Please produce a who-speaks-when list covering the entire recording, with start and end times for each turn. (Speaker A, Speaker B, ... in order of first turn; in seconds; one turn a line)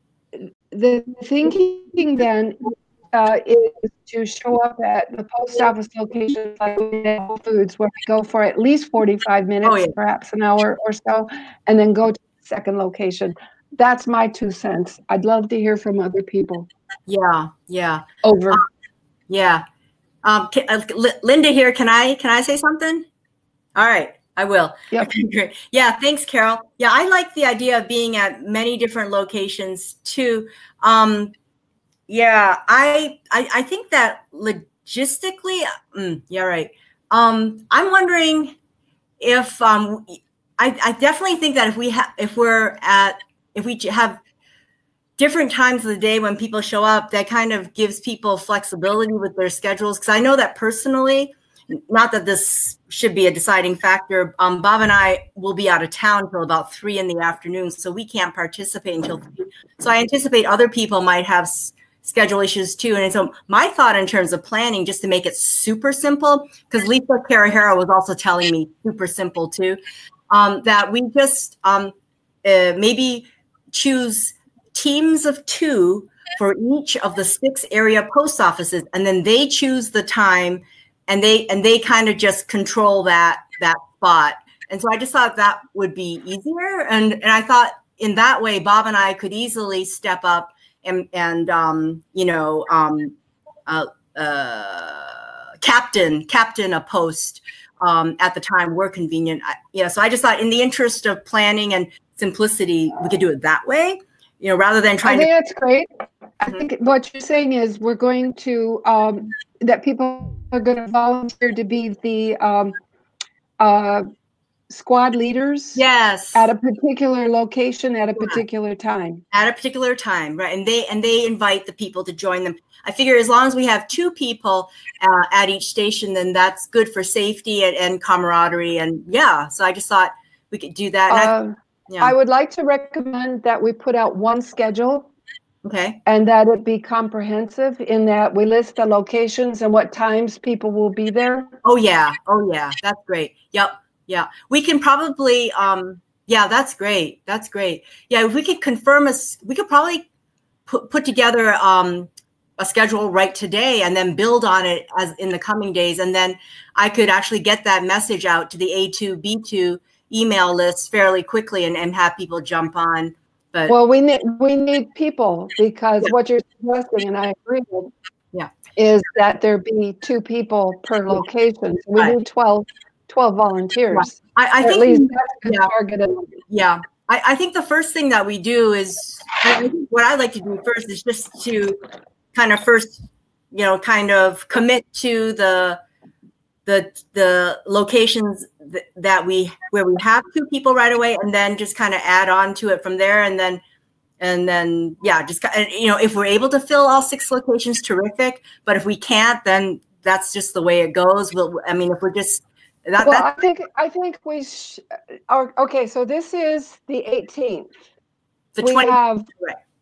Speaker A: 0.3-16.7
Speaker B: 9.6-9.9
Speaker B: 17.1-18.6
Speaker A: 18.2-18.6
Speaker B: 19.3-19.6
Speaker B: 20.2-23.1
Speaker B: 23.8-31.3
Speaker B: 32.1-38.5
Speaker B: 39.2-44.2
Speaker B: 45.2-93.2
Speaker B: 93.7-105.3
Speaker A: 105.0-105.9
Speaker A: 106.4-112.8
Speaker A: 113.6-114.0
Speaker A: 114.7-115.8
Speaker B: 115.7-116.5
Speaker A: 116.3-119.2
Speaker B: 119.3-131.3
Speaker A: 131.1-135.1
Speaker B: 131.9-132.1
Speaker B: 135.6-136.0
Speaker A: 136.1-141.5
Speaker B: 141.6-150.1
Speaker B: 150.7-163.8
Speaker A: 163.7-167.9
Speaker A: 168.8-176.4
Speaker B: 173.9-175.7
Speaker B: 176.5-181.8
Speaker B: 182.3-185.8
Speaker B: 186.7-193.6
Speaker B: 194.2-203.3
Speaker A: 203.0-207.8
Speaker B: 208.5-209.6
Speaker A: 208.6-209.3